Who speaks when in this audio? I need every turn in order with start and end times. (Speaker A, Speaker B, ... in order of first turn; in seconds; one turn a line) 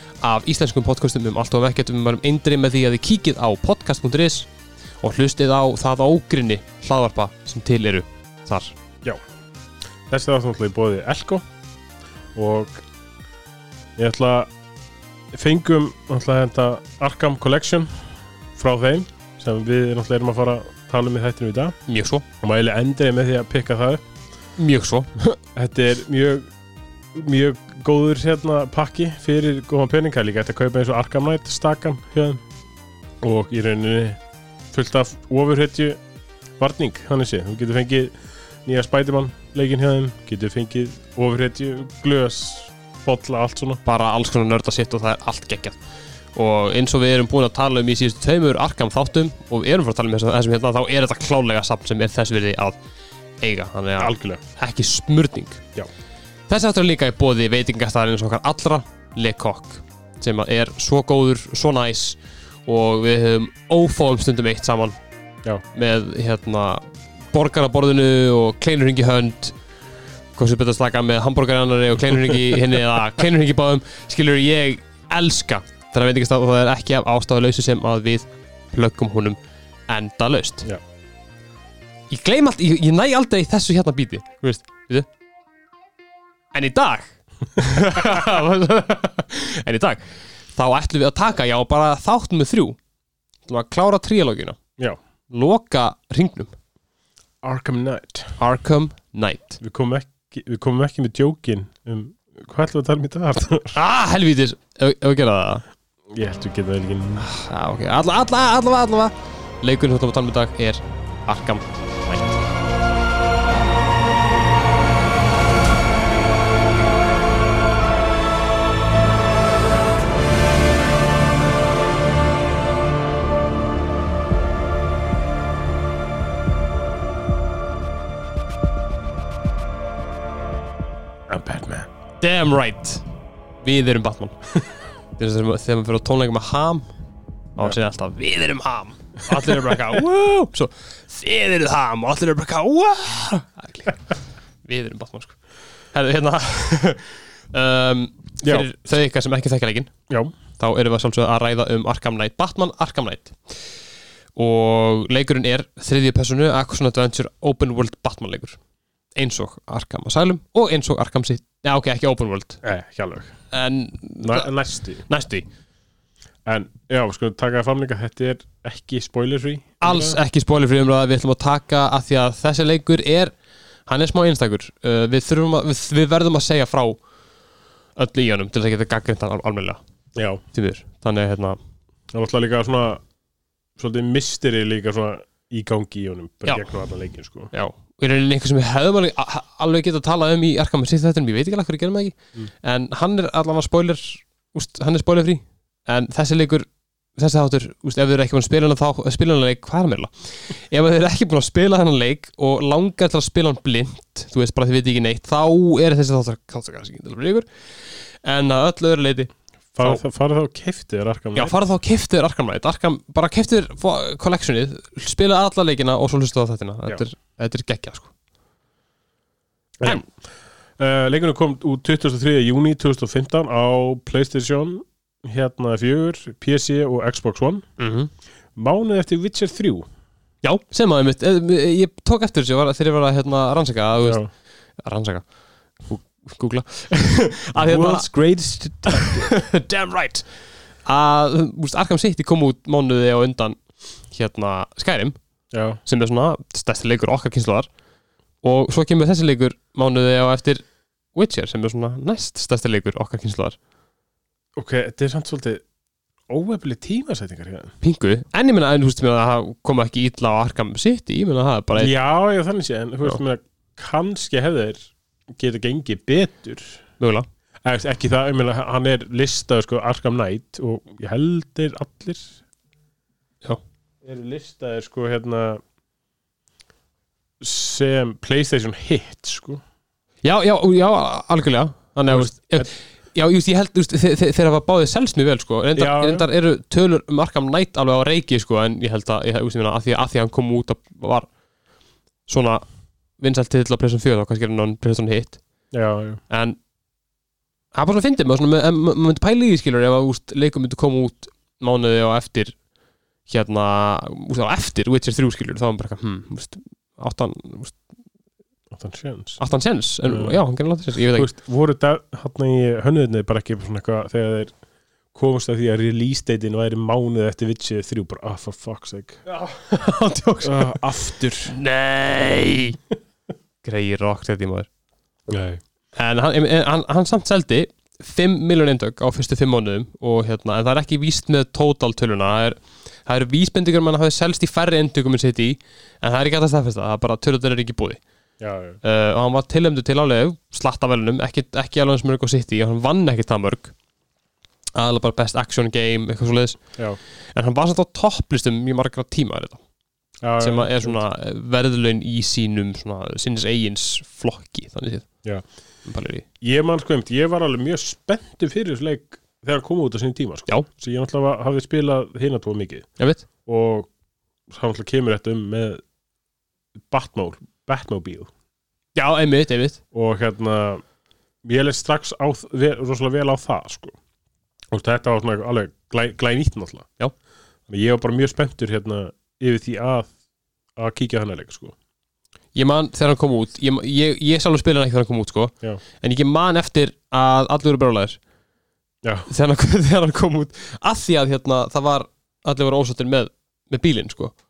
Speaker A: 0.2-4.5
Speaker A: 5.0-8.8
Speaker B: 10.1-11.4
Speaker B: 12.3-12.8
Speaker B: 14.0-14.5
Speaker B: 15.3-18.0
Speaker B: 18.6-21.8
Speaker A: 21.9-22.2
Speaker B: 22.4-24.0
Speaker A: 24.6-25.4
Speaker B: 25.5-26.4
Speaker B: 27.1-32.4
Speaker B: 33.2-34.2
Speaker B: 34.7-36.0
Speaker B: 36.6-43.8
Speaker A: 43.8-45.8
Speaker A: 46.3-52.8
Speaker A: 53.4-55.6
Speaker B: 54.0-54.4
Speaker A: 56.5-65.0
Speaker A: 65.7-69.5
Speaker A: 70.3-80.7
Speaker A: 82.1-85.1
Speaker A: 86.5-92.8
Speaker A: 93.5-94.6
Speaker A: 95.3-96.5
Speaker B: 97.4-98.4
Speaker A: 98.4-99.6
Speaker B: 99.6-103.8
Speaker A: 103.7-105.6
Speaker B: 106.1-107.3
Speaker A: 107.2-112.3
Speaker B: 131.3-131.9
Speaker A: 132.2-133.0
Speaker A: 133.6-134.5
Speaker A: 135.2-136.8
Speaker A: 137.6-144.1
Speaker B: 139.3-139.8
Speaker A: 144.6-145.4
Speaker A: 145.9-149.9
Speaker B: 148.4-148.7
Speaker B: 150.1-150.3
Speaker A: 150.6-153.4
Speaker A: 154.3-158.6
Speaker A: 159.2-162.6
Speaker B: 162.6-163.3
Speaker A: 163.5-164.5
Speaker B: 164.2-165.0
Speaker A: 165.0-165.4
Speaker B: 166.4-170.2
Speaker A: 169.8-173.3
Speaker A: 173.9-177.0
Speaker A: 178.0-179.8
Speaker B: 180.2-180.4
Speaker A: 180.5-181.6
Speaker B: 182.1-183.0
Speaker B: 183.8-187.5
Speaker A: 187.5-210.0
Speaker B: 209.7-211.6
Speaker A: 211.3-218.1
Speaker B: 219.8-220.1
Speaker B: 220.8-227.6
Speaker A: 227.8-228.1
Speaker B: 228.6-229.8
Speaker A: 230.4-234.2
Speaker B: 234.0-234.3
Speaker A: 234.8-235.2
Speaker A: 235.8-238.1
Speaker B: 237.6-239.3
Speaker A: 238.8-240.2
Speaker A: 240.8-245.2
Speaker B: 245.5-245.8
Speaker A: 245.8-247.7
Speaker A: 248.4-250.6
Speaker A: 251.1-253.6
Speaker B: 254.6-255.6
Speaker B: 256.3-257.7
Speaker A: 257.8-261.9
Speaker B: 261.8-266.8
Speaker A: 267.0-267.2
Speaker B: 267.6-272.4
Speaker B: 274.0-275.6
Speaker B: 277.4-279.6
Speaker A: 280.2-291.3
Speaker B: 282.1-282.7
Speaker B: 285.8-286.3
Speaker A: 292.3-292.6
Speaker A: 293.2-295.4
Speaker B: 295.7-296.2
Speaker A: 296.3-296.6
Speaker A: 297.7-302.6
Speaker A: 303.3-307.8
Speaker B: 308.7-309.4
Speaker A: 309.4-311.3
Speaker B: 310.1-310.4
Speaker B: 311.1-314.5
Speaker B: 315.1-319.2
Speaker A: 319.3-320.8
Speaker B: 320.4-321.6
Speaker A: 321.4-322.8
Speaker A: 323.6-324.7
Speaker B: 325.3-325.6
Speaker A: 325.9-338.0
Speaker B: 338.4-338.8
Speaker A: 338.8-343.7
Speaker A: 344.8-346.6
Speaker A: 347.3-349.6
Speaker B: 350.2-351.0
Speaker A: 350.4-355.1
Speaker A: 355.9-356.2
Speaker B: 356.4-362.9
Speaker A: 363.0-363.2
Speaker B: 363.4-363.9
Speaker B: 364.5-365.8
Speaker B: 366.9-368.3
Speaker A: 368.9-369.8
Speaker B: 369.9-370.8
Speaker B: 371.4-373.9
Speaker B: 374.7-376.9
Speaker B: 377.7-380.1
Speaker B: 380.8-381.7
Speaker A: 382.5-388.2
Speaker B: 389.0-389.3
Speaker A: 389.3-394.3